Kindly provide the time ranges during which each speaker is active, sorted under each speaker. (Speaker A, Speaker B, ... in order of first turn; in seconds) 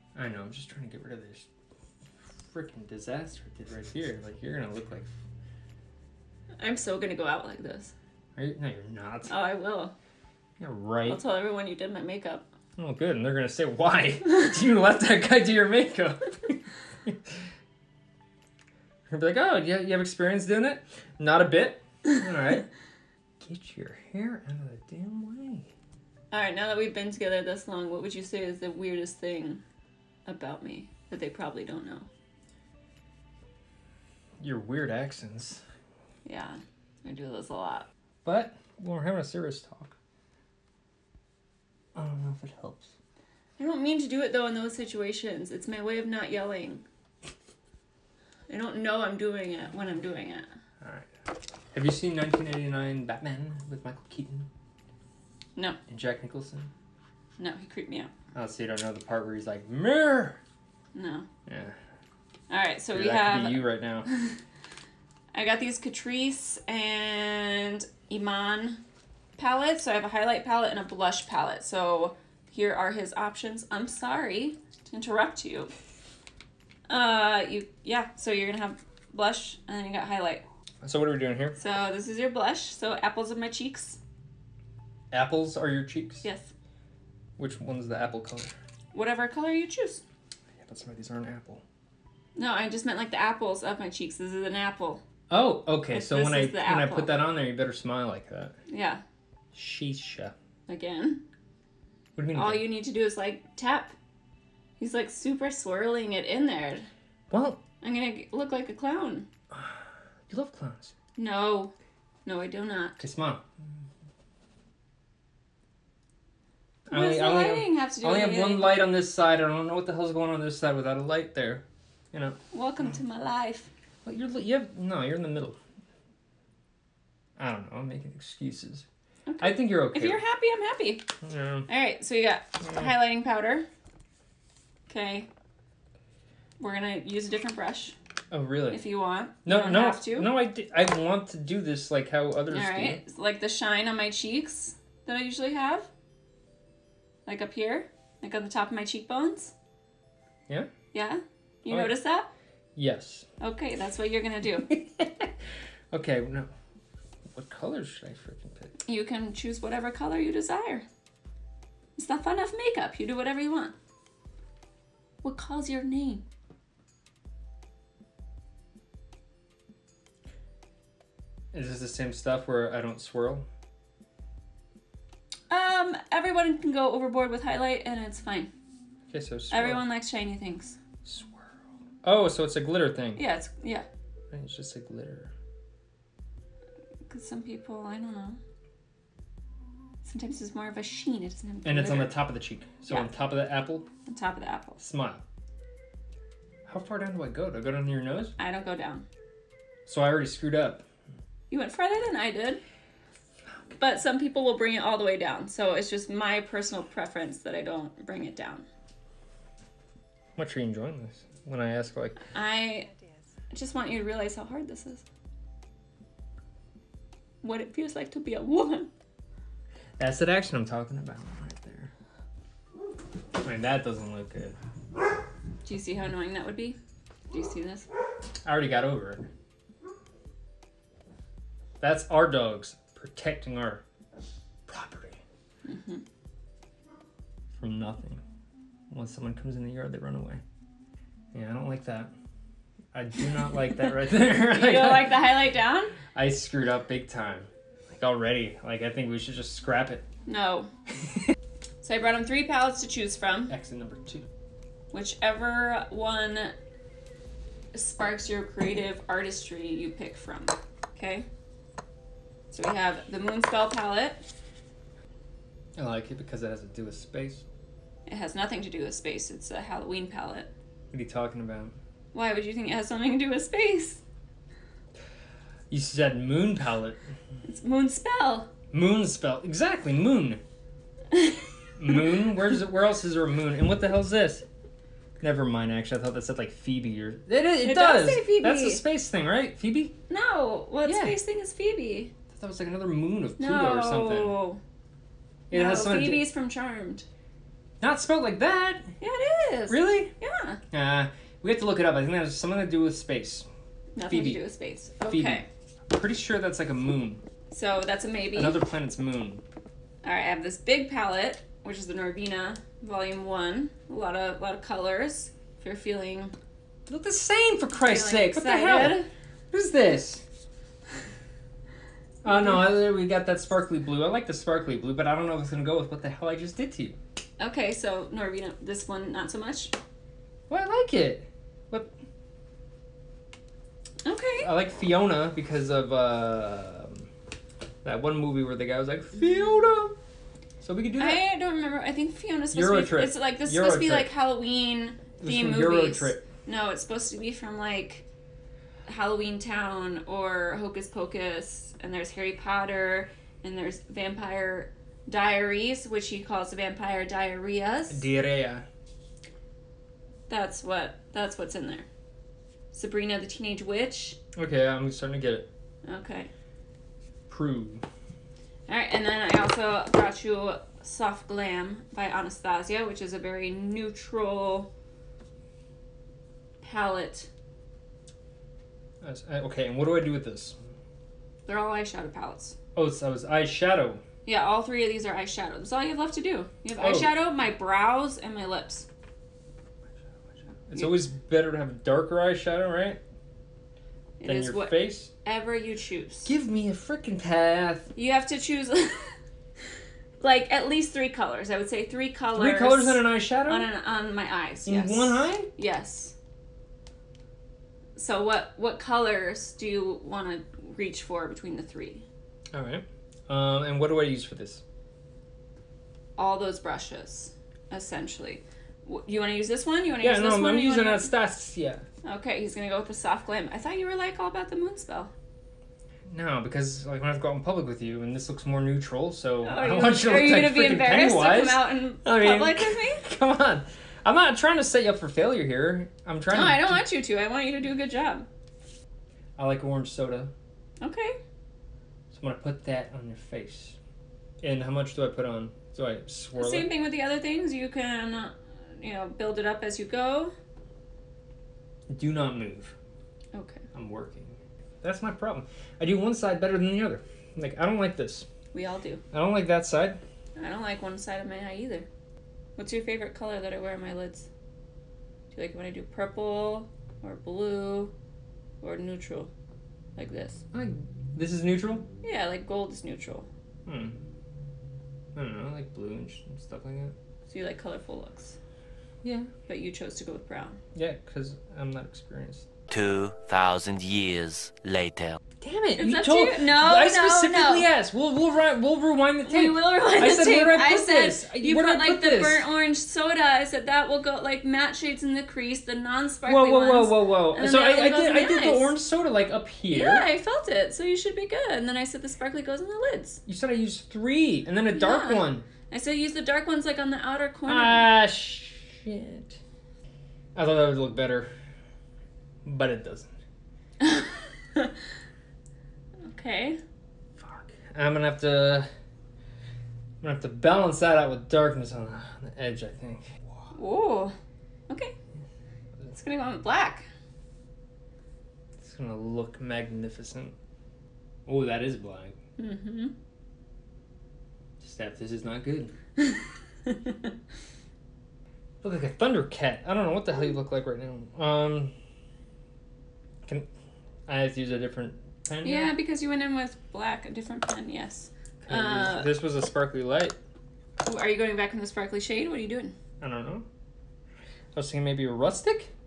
Speaker A: 0.1-1.5, 2.4-5.1, 8.4-9.3, 10.6-11.2, 12.8-17.4, 19.1-22.7, 23.4-25.7, 34.4-35.6, 38.2-40.0, 42.0-42.9, 50.8-51.1, 51.7-54.5, 55.9-56.7, 58.3-60.4, 61.5-61.8, 62.9-64.1, 80.8-81.6, 85.1-86.2, 87.4-88.5, 90.6-91.6, 95.3-98.6, 99.5-100.3, 102.2-102.7, 107.3-107.6, 109.5-110.9, 113.0-113.4, 116.9-122.4, 124.0-125.6, 127.4-128.9, 129.4-130.2, 131.2-131.7, 132.6-132.9, 138.3-138.8, 139.4-143.0, 151.7-151.9, 152.8-153.3, 154.7-156.5, 157.3-158.7, 171.5-173.5, 179.1-179.8, 181.1-183.2, 184.3-185.3, 191.6-193.9, 194.8-195.2, 196.7-198.3, 199.9-200.8, 210.4-212.2, 220.0-221.9, 223.4-224.6, 228.4-229.3, 231.8-233.8, 234.7-235.2, 237.5-238.2, 238.9-240.4, 241.3-242.1, 242.9-245.2, 246.1-250.1, 253.5-254.3, 265.8-267.4, 270.9-271.8, 275.7-277.0, 278.7-280.4, 281.8-284.5, 285.2-290.0, 290.9-291.2, 292.3-294.4, 295.5-296.2, 297.8-298.9, 299.7-300.1, 300.7-303.5, 304.1-304.4, 305.1-307.2, 308.3-309.4, 316.9-320.2, 322.2-327.0, 330.5-331.9, 334.4-337.1, 337.8-340.0, 340.6-341.2, 342.5-344.1, 345.2-346.2, 357.9-358.7, 364.4-365.5, 367.3-367.9, 379.0-380.6, 382.8-384.0, 386.8-387.1, 390.7-393.0, 394.2-395.1, 396.3-397.9, 402.3-403.7, 404.7-405.5, 412.5-414.6, 420.0-421.8, 426.1-436.8, 439.4-440.3, 442.1-443.8, 444.4-446.7, 451.9-452.8, 453.7-458.3, 459.1-460.0, 470.5-471.9, 473.7-474.0, 475.1-476.9, 479.0-479.3, 480.8-482.5, 485.4-492.5, 496.2-500.1, 503.3-505.5, 507.5-509.4, 510.4-511.3, 512.4-513.1, 517.2-518.7, 520.0-523.4, 528.6-530.4, 531.3-532.2, 534.6-535.7, 538.6-541.7, 544.1-545.7, 548.4-550.2, 553.0-553.5, 554.5-555.7
Speaker B: 6.6-7.9, 9.3-9.9, 11.1-12.5, 26.3-29.6, 30.3-32.1, 36.3-37.9, 43.6-46.9, 48.5-50.5, 57.4-58.1, 60.9-61.3, 62.5-64.3, 65.3-68.8, 69.4-75.7, 76.9-80.4, 81.6-84.0, 86.2-86.5, 88.9-90.0, 92.4-95.0, 95.9-97.1, 98.7-99.0, 100.7-101.2, 102.3-103.9, 104.8-106.9, 107.8-109.3, 111.2-111.7, 112.3-113.0, 116.9-118.8, 122.5-123.7, 129.3-131.1, 131.7-133.7, 134.9-135.3, 136.6-137.9, 138.7-140.3, 142.5-145.9, 147.3-149.5, 150.9-152.3, 153.4-154.7, 158.8-160.9, 162.0-163.7, 165.2-166.2, 175.5-178.5, 179.5-180.8, 183.2-183.9, 187.1-188.4, 190.0-192.2, 194.1-194.8, 198.4-199.1, 201.5-202.6, 203.8-208.7, 212.3-212.9, 213.5-215.1, 217.4-218.9, 225.7-226.8, 227.3-227.9, 235.7-236.0, 244.5-246.0, 250.3-250.7, 251.8-253.5, 254.9-256.5, 257.7-261.2, 262.5-264.2, 268.1-270.5, 272.1-274.0, 277.4-278.5, 281.1-281.4, 287.6-288.8, 290.1-292.1, 293.4-294.6, 295.5-297.1, 299.0-300.6, 303.9-305.5, 307.5-308.6, 310.0-316.3, 317.8-319.1, 322.3-322.6, 327.4-329.8, 334.1-334.5, 341.0-348.1, 348.9-358.1, 360.3-361.9, 362.7-364.2, 365.9-366.3, 368.7-374.7, 376.6-377.3, 381.5-382.6, 384.3-388.9, 394.2-396.3, 397.9-399.2, 400.2-406.1, 408.0-412.1, 416.2-421.1, 422.0-425.1, 429.4-433.0, 436.3-438.3, 440.8-441.2, 446.4-450.3, 453.3-453.6, 458.5-459.0, 460.4-461.9, 462.6-464.3, 465.3-467.9, 468.6-469.3, 470.0-470.4, 472.0-473.3, 477.3-478.4, 479.5-480.6, 485.8-487.7, 489.3-498.8, 499.7-503.2, 504.7-507.9, 513.8-514.7, 516.1-516.6, 523.5-524.2, 524.7-524.9, 525.9-526.9, 532.4-532.9, 536.0-537.1, 545.4-549.1, 550.8-552.8
Speaker C: 482.7-485.2